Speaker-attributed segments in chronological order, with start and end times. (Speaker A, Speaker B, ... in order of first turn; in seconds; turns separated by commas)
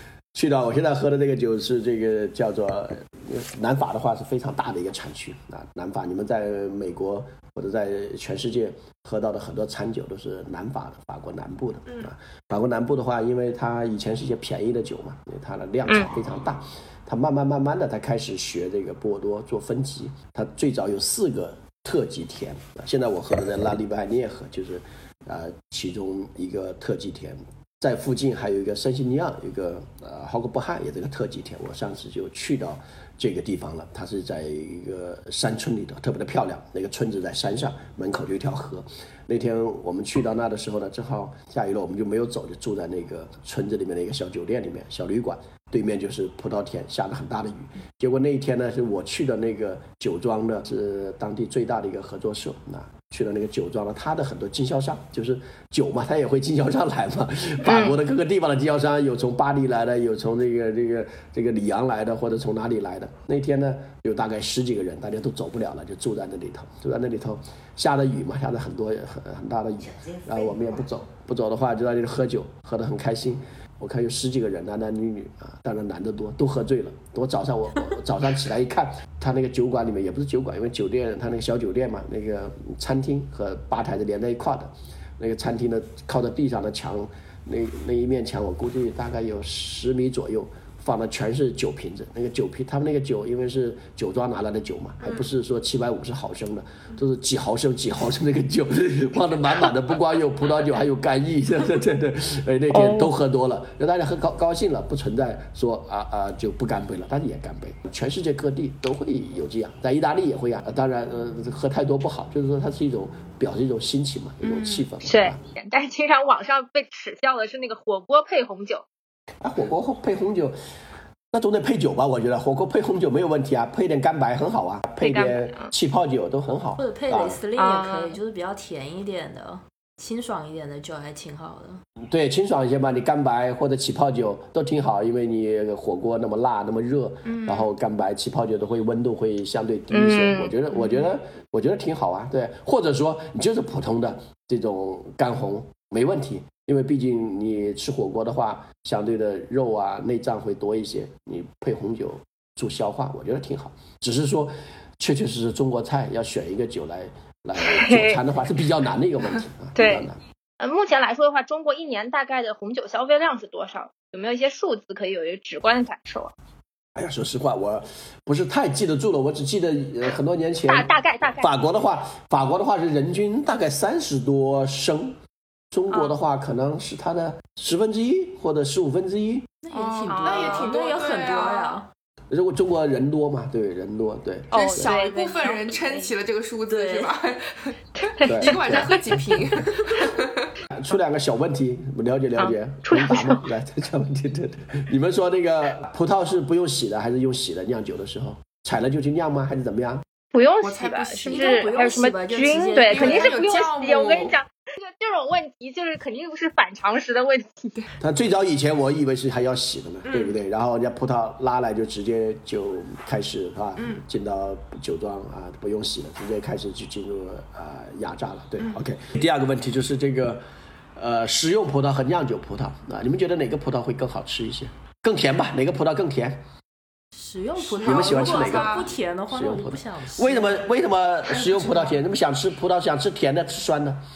Speaker A: 0.3-115.4, Speaker B: 57.6-58.0, Speaker C: 95.0-95.3, Speaker B: 102.7-103.1, Speaker C: 114.4-114.9, Speaker B: 115.0-118.8, Speaker A: 119.4-120.5, Speaker A: 121.3-127.4, Speaker B: 125.0-125.7, Speaker D: 126.8-131.8, Speaker B: 127.6-128.2, Speaker A: 132.0-160.2, Speaker C: 137.3-137.7, Speaker B: 139.9-140.6, Speaker C: 140.7-141.1, Speaker B: 157.6-158.2, Speaker B: 159.8-160.1, Speaker B: 160.6-166.3, Speaker A: 167.0-170.9, Speaker B: 170.7-171.5, Speaker A: 171.4-175.2, Speaker A: 175.7-179.5, Speaker D: 179.6-181.9, Speaker C: 179.7-181.8, Speaker B: 180.1-180.7, Speaker A: 182.3-184.9, Speaker C: 184.5-190.6, Speaker B: 184.5-186.1, Speaker D: 186.7-187.1, Speaker B: 188.0-188.7, Speaker A: 188.2-189.5, Speaker A: 190.7-200.0, Speaker B: 192.4-193.4, Speaker B: 200.3-207.8, Speaker C: 200.6-201.7, Speaker D: 201.3-203.5, Speaker C: 202.8-204.3, Speaker A: 208.0-220.4, Speaker C: 210.1-210.4, Speaker C: 213.8-214.0, Speaker A: 221.0-226.4, Speaker D: 227.1-230.6, Speaker C: 227.6-229.0, Speaker A: 227.8-234.0, Speaker C: 231.3-232.0